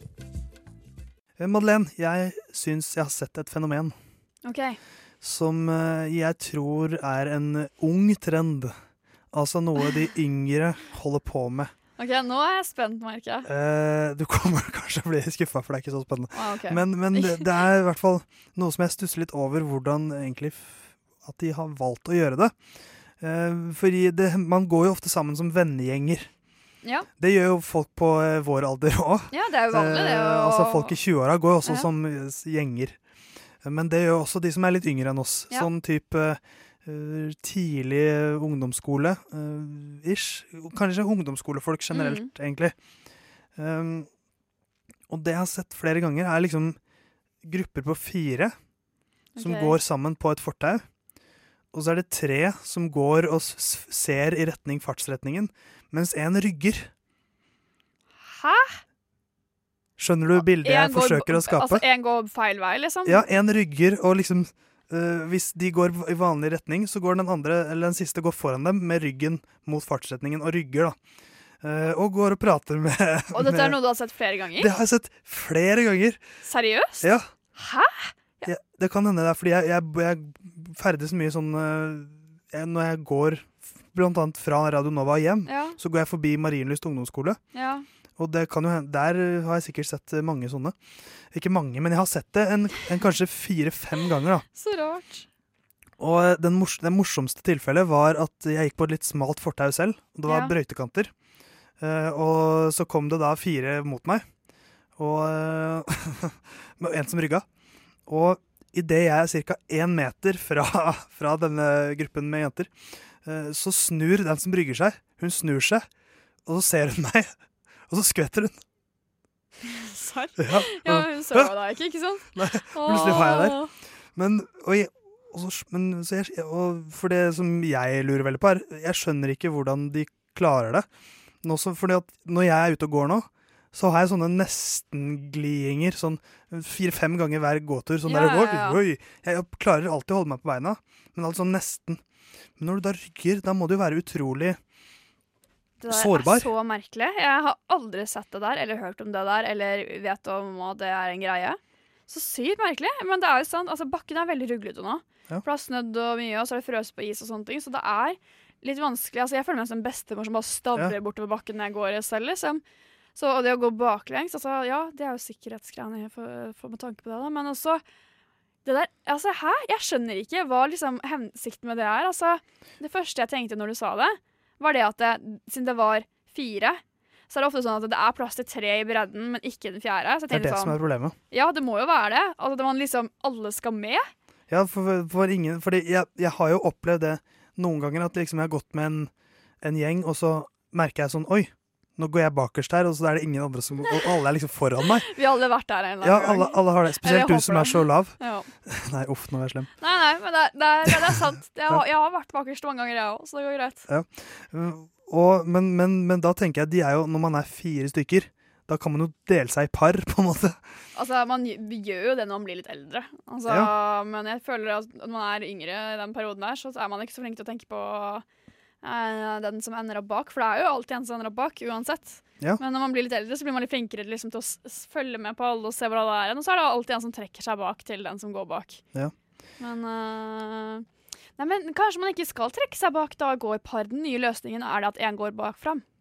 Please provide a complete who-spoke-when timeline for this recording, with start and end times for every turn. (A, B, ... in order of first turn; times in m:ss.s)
0:01.4-0:03.9 A
0:04.4-0:04.8 B
0:05.2-0:08.7 A
0:09.3-0:11.7 A
0:12.0-0:13.5 B
0:13.4-0:22.5 A
0:16.3-0:17.6 B
0:23.2-0:26.3 A
0:27.2-0:33.0 A
0:29.3-0:30.9 B
0:33.6-0:42.7 A
0:41.9-0:42.3 B
0:43.6-0:44.1 A
0:45.1-0:46.8 A
0:47.4-0:48.5 A
0:49.4-0:49.8 B
0:49.4-0:50.8 A
0:51.7-0:56.9 A
0:58.2-0:58.8 B
1:00.0-1:01.8 A
1:00.4-1:03.2 B
1:03.0-1:11.0 A
1:11.6-1:13.8 A
1:13.3-1:14.7 B
1:14.6-1:16.2 A
1:16.4-1:18.5 B
1:18.4-1:27.4 A
1:25.4-1:25.8 B
1:27.5-1:27.8 B
1:28.2-1:30.7 A
1:31.3-1:34.4 A
1:34.5-1:35.2 B
1:36.0-1:41.1 A
1:40.3-1:40.5 B
1:41.8-1:44.2 A
1:45.0-1:47.4 A
1:48.1-1:52.7 A
1:53.2-1:55.9 A
1:56.4-1:57.3 A
1:57.9-1:58.6 A
1:59.6-2:03.7 B
2:00.4-2:01.5 A
2:02.3-2:03.6 A
2:04.2-2:10.8 A
2:11.4-2:22.0 A
2:18.0-2:18.8 B
2:22.6-2:24.6 A
2:25.8-2:42.6 B
2:25.9-2:26.5 A
2:43.2-2:47.8 B
2:48.6-3:00.8 B
3:00.3-3:01.1 A
3:01.3-3:04.1 B
3:04.5-3:09.1 A
3:09.6-3:15.1 A
3:15.0-3:18.5 B
3:16.0-3:19.7 A
3:19.8-3:23.8 B
3:23.9-3:30.6 A
3:30.9-3:38.2 B
3:38.8-3:48.8 B
3:49.6-3:50.8 B
3:51.4-3:55.8 B